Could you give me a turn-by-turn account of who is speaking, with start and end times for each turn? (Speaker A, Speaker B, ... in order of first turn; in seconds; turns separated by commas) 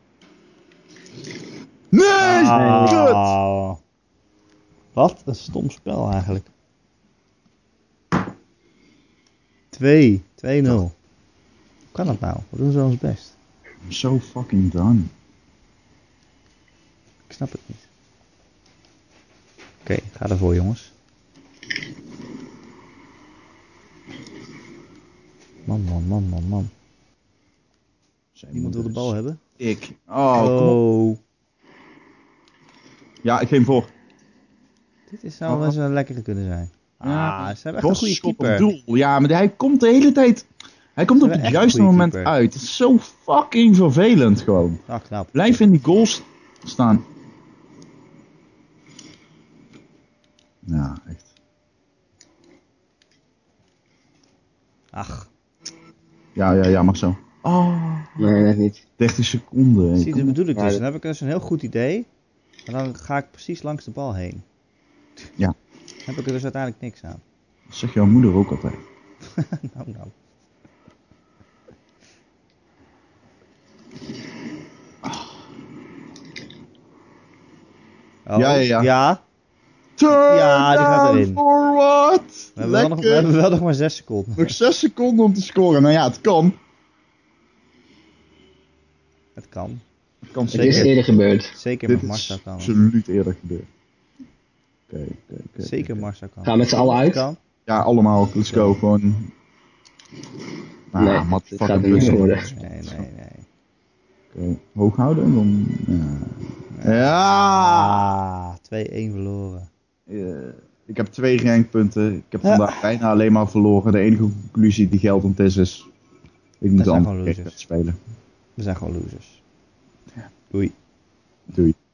Speaker A: 1.9-3.3, Speaker B: 2.2-3.8, Speaker C: 2.5-3.0, Speaker B: 4.9-6.5, Speaker B: 9.7-10.9, Speaker B: 11.9-13.3, Speaker A: 13.8-15.1, Speaker B: 17.3-17.8, Speaker B: 19.8-20.9, Speaker B: 25.6-26.7, Speaker A: 28.4-30.8, Speaker B: 28.5-29.4, Speaker B: 30.3-31.2, Speaker A: 33.2-33.9, Speaker B: 35.1-38.7, Speaker A: 35.5-35.7, Speaker A: 37.0-44.8, Speaker B: 41.2-42.3, Speaker B: 44.9-45.6, Speaker A: 45.3-47.0, Speaker A: 50.6-51.2, Speaker B: 54.9-55.3, Speaker A: 56.4-58.3, Speaker C: 58.2-58.8, Speaker A: 59.0-60.4, Speaker B: 60.0-62.1, Speaker C: 60.5-60.8, Speaker B: 62.7-64.4, Speaker B: 66.0-67.2, Speaker A: 67.7-68.8, Speaker B: 69.3-70.1, Speaker B: 78.2-79.2, Speaker A: 78.3-78.9, Speaker A: 80.0-83.3, Speaker B: 80.1-81.4, Speaker B: 82.6-84.5, Speaker A: 84.4-86.6, Speaker B: 89.3-89.8, Speaker A: 90.2-90.9, Speaker C: 90.5-91.5, Speaker B: 90.5-90.9, Speaker B: 91.5-92.7, Speaker A: 91.9-93.7, Speaker A: 94.9-96.0, Speaker B: 95.6-97.4, Speaker C: 96.4-97.2, Speaker A: 97.7-99.3, Speaker B: 98.5-98.8, Speaker A: 100.9-103.0, Speaker C: 101.0-102.5, Speaker B: 101.9-103.4, Speaker A: 104.3-108.1, Speaker B: 106.7-109.7, Speaker A: 110.1-115.9, Speaker B: 112.4-112.9, Speaker A: 116.6-118.0, Speaker B: 116.8-117.5, Speaker B: 118.6-119.4, Speaker A: 121.5-121.8